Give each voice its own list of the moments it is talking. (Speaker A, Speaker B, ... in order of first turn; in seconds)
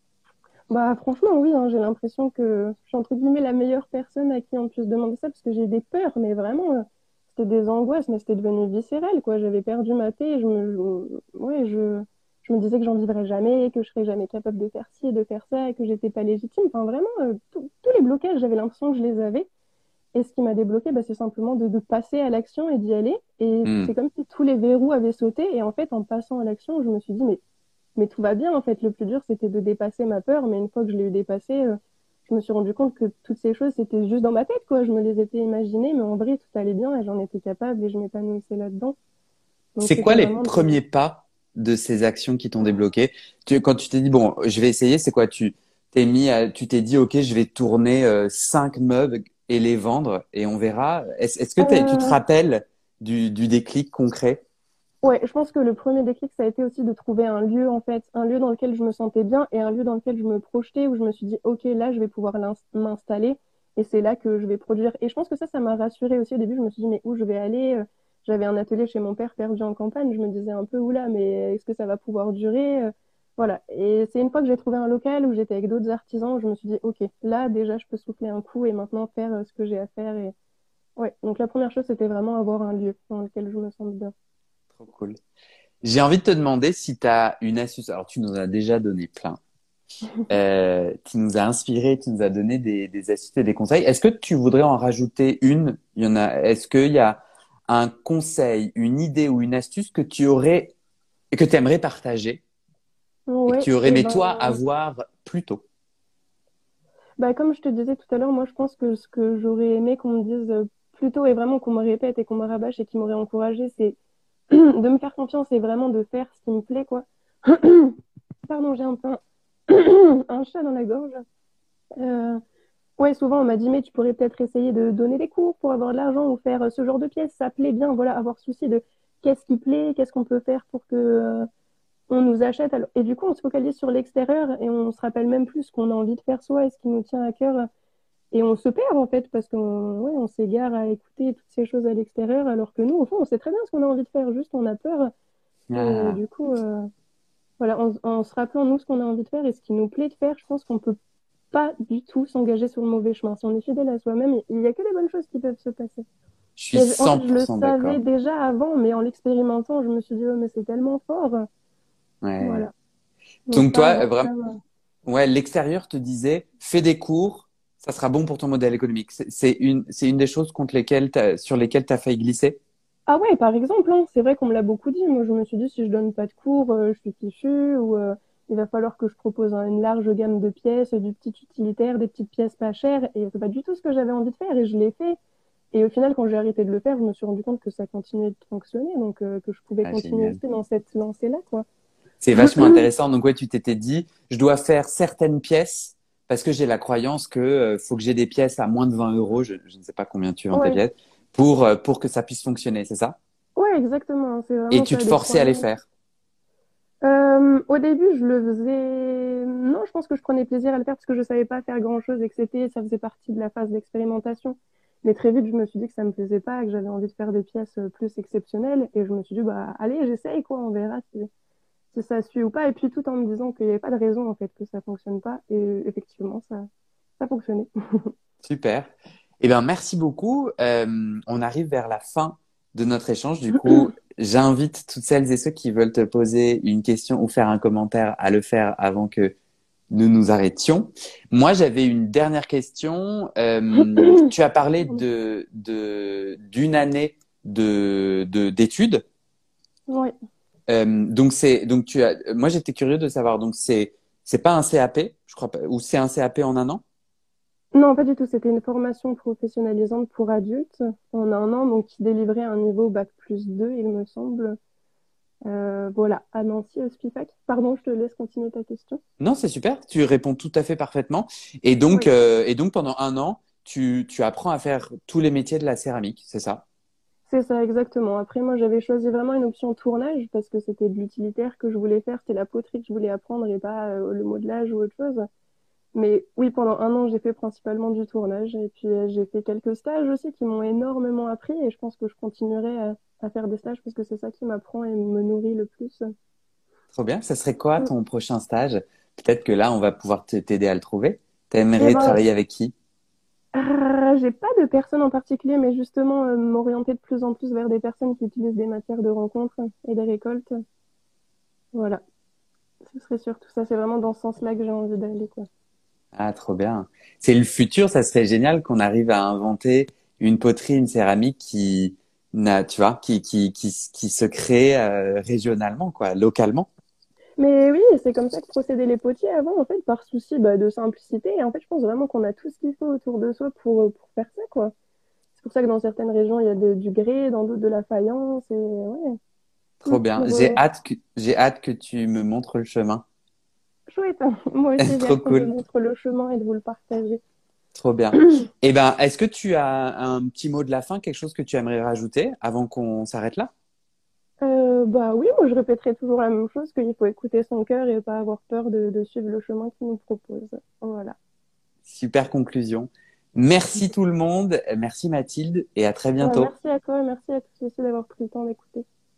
Speaker A: 0.7-19.5, 20.1-27.4, 28.0-31.8, 32.3-38.9, 39.8-40.8, 51.6-52.2, 55.0-80.3, 81.0-84.1, 103.3-104.6, 107.2-114.0, 114.5-118.0, 118.5-121.2, 122.0-122.4, 123.0-131.5, 132.1-137.7, 138.3-145.1, 145.7-146.9, 147.6-150.9, 151.5-156.0, 156.7-161.4, 162.4-162.7, 163.5-164.6, 173.1-185.2, 185.7-191.7, 192.4-192.9, 200.5-200.8, 203.6-205.6, 207.0-221.3, 221.9-226.7, 227.2-228.1, 244.0-244.2, 257.7-264.6, 265.4-269.0, 277.3-285.2, 285.9-296.0, 301.8-302.2, 303.6-310.5, 311.7-312.0, 312.9-315.5, 327.4-334.7, 335.4-339.2, 339.9-340.6, 343.9-347.2, 354.4-361.1, 366.2-368.8
Speaker B: 23.6-23.9, 39.8-54.4, 84.7-85.2, 85.8-89.4, 90.3-100.7, 101.3-102.4, 103.5-105.6, 145.7-146.2, 156.6-158.0, 162.2-162.7, 163.5-164.3, 165.1-172.6, 189.8-190.4, 192.2-203.2, 204.7-205.8, 228.4-239.3, 239.9-249.0, 250.7-256.8, 269.2-276.6, 296.9-302.7, 316.1-326.7, 339.8-343.0, 344.8-345.5, 347.7-353.5, 361.8-366.5